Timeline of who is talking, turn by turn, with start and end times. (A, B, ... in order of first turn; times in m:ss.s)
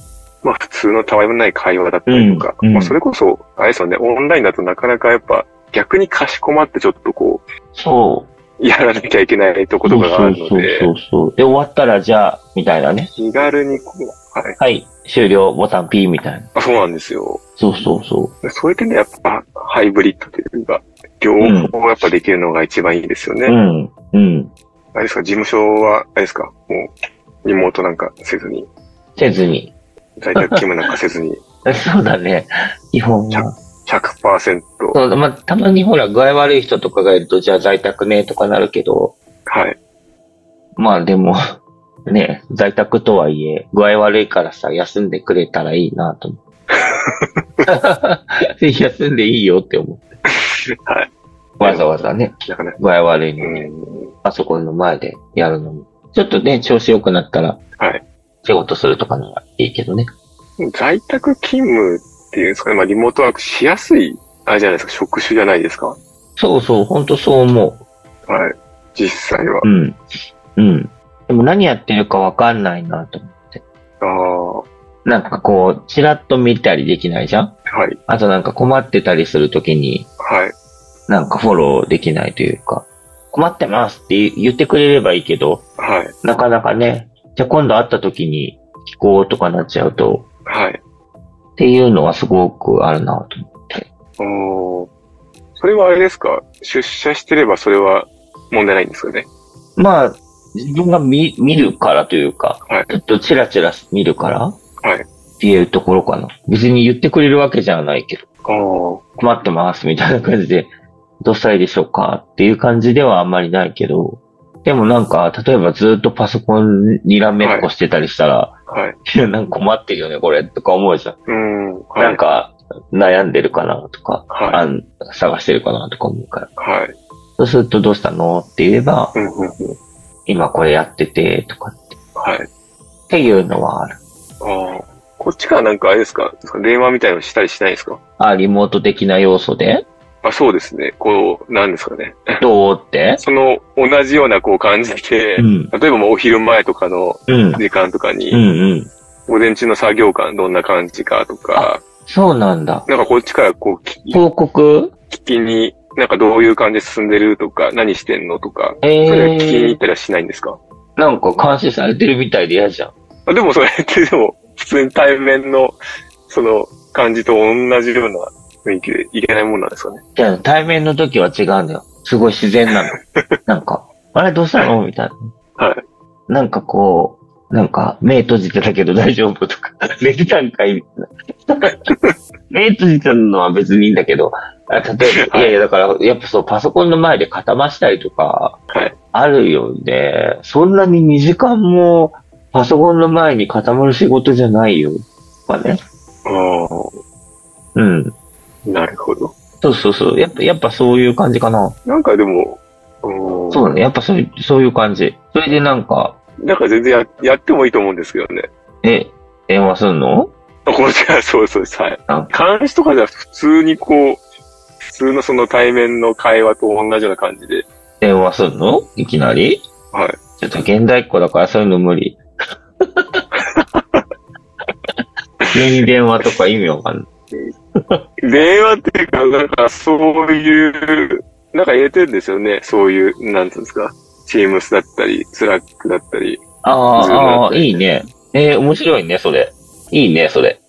0:00.4-0:07.4 A
0:02.1-0:03.0 B
0:07.8-0:08.3 B
0:08.6-0:10.9 A
0:09.8-0:13.1 B
0:13.2-0:14.6 A
0:14.6-0:16.5 B
0:16.5-0:17.4 A
0:17.6-0:18.3 B
0:18.4-0:23.6 A
0:21.4-0:21.8 B
0:23.5-0:24.5 B
0:24.9-0:28.7 A
0:29.2-0:29.7 B
0:30.2-0:31.4 A
0:30.4-0:30.6 B
0:31.6-0:33.6 B
0:33.3-0:35.0 A
0:34.9-0:39.2 B
0:39.5-0:39.8 A
0:40.8-0:41.4 B
0:42.1-0:46.4 B
0:46.7-0:47.3 A
0:47.6-0:50.0 B
0:51.6-0:53.7 B
0:51.6-0:52.8 A
0:53.4-0:54.1 A
0:54.2-0:57.6 B
0:57.8-0:58.0 A
0:58.4-1:00.1 B
1:00.6-1:06.0 A
1:06.4-1:07.8 B
1:08.3-1:09.7 A
1:09.6-1:10.0 B
1:10.6-1:13.6 B
1:14.0-1:14.7 A
1:15.0-1:17.6 B
1:17.7-1:18.0 A
1:18.1-1:20.1 B
1:20.2-1:20.6 A
1:21.1-1:25.7 B
1:25.8-1:26.2 A
1:26.2-1:30.3 B
1:30.5-1:30.8 A
1:31.6-1:33.9 B
1:34.2-1:34.9 A
1:35.6-1:39.3 A
1:39.8-1:44.6 B
1:42.7-1:42.9 A
1:44.8-1:45.1 A
1:45.4-1:48.2 B
1:48.4-1:49.2 A
1:49.2-2:01.2 B
1:57.4-1:57.7 A
1:58.7-1:59.0 A
2:01.3-2:02.2 A
2:02.0-2:06.5 B
2:04.3-2:04.7 A
2:06.6-2:07.0 A
2:07.4-2:09.2 B
2:09.1-2:09.8 A
2:10.3-2:12.0 B
2:12.2-2:12.5 A
2:13.1-2:14.0 B
2:14.4-2:18.0 A
2:18.2-2:19.8 B
2:20.2-2:22.4 A
2:22.4-2:23.2 B
2:23.2-2:28.4 A
2:25.4-2:25.7 B
2:27.3-2:27.6 B
2:28.3-2:28.9 B
2:29.3-2:31.8 A
2:31.6-2:32.9 B
2:32.9-2:34.2 A
2:34.1-2:34.9 B
2:35.1-2:40.6 A
2:38.8-2:39.8 B
2:41.0-2:42.9 B
2:43.3-2:50.0 A
2:50.2-2:53.0 B
2:52.7-2:53.3 A
2:53.5-2:55.3 B
2:56.3-3:00.9 B
3:01.4-3:01.7 B
3:01.9-3:02.1 A
3:02.5-3:08.6 B
3:05.2-3:05.6 A
3:09.1-3:15.8 B
3:16.2-3:16.9 A
3:17.8-3:18.1 B
3:18.7-3:19.4 A
3:19.6-3:21.8 B
3:21.8-3:23.8 A
3:23.5-3:26.2 B
3:26.4-3:28.5 A
3:28.8-3:30.3 B
3:30.7-3:34.2 A
3:34.8-3:37.7 A
3:38.0-3:39.6 B
3:39.9-3:40.2 A
3:40.4-3:42.2 B
3:42.8-3:43.2 B
3:43.3-3:44.0 A
3:45.5-3:47.1 B
3:48.2-3:56.4 A
3:56.6-4:00.6 B
3:56.9-3:57.8 A